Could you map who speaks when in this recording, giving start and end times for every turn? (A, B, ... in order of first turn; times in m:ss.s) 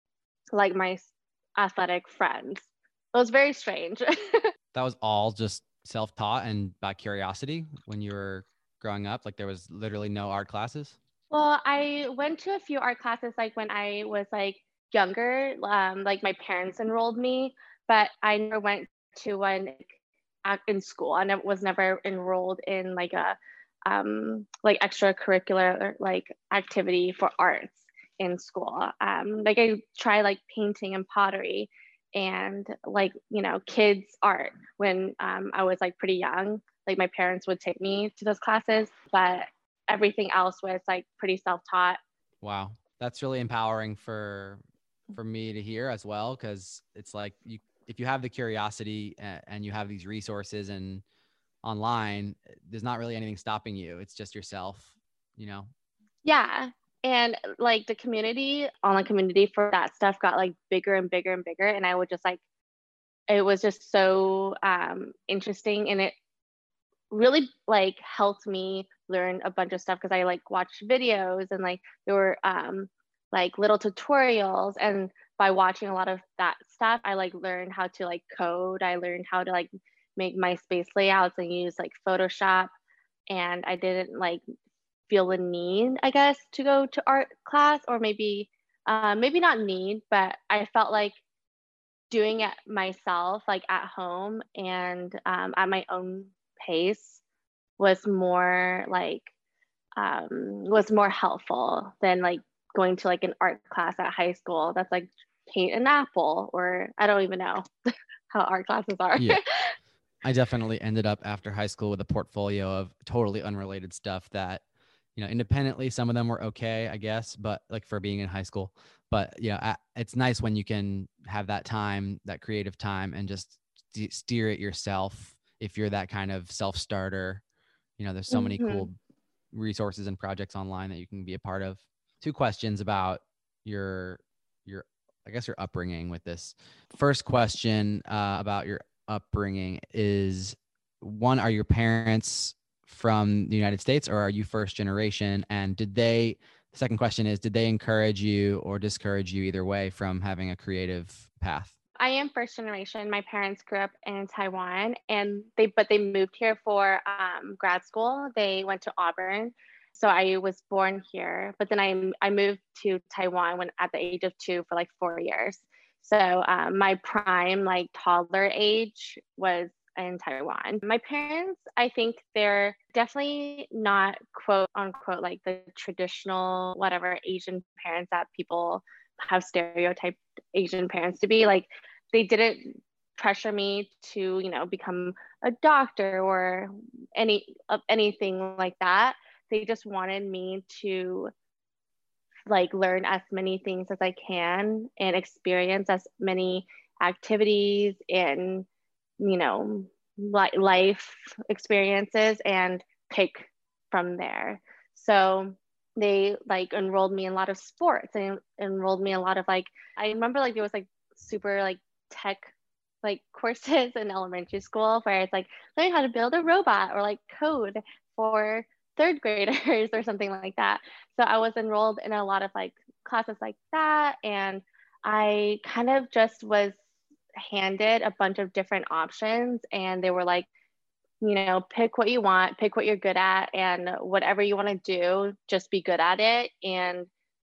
0:00.5-0:04.5 A
0:04.7-0:11.0 B
0:11.3-0:42.0 A
0:42.4-0:44.6 B
0:45.1-0:51.0 B
0:51.6-0:55.7 B
0:56.2-1:02.4 A
1:03.3-1:06.1 A
1:07.1-1:22.7 A
1:23.3-1:24.4 A
1:25.1-1:31.2 A
1:32.1-1:37.2 A
1:37.8-1:39.3 A
1:40.0-1:47.6 A
1:48.3-1:49.7 A
1:50.2-1:54.6 B
1:55.2-2:07.4 B
2:08.0-2:08.9 B
2:08.3-2:08.9 A
2:09.5-2:31.7 B
2:32.0-3:11.3 A
3:12.5-3:18.7 A
3:19.2-3:32.5 A
3:33.0-3:46.8 A
3:47.4-3:50.5 A
3:51.2-3:57.1 A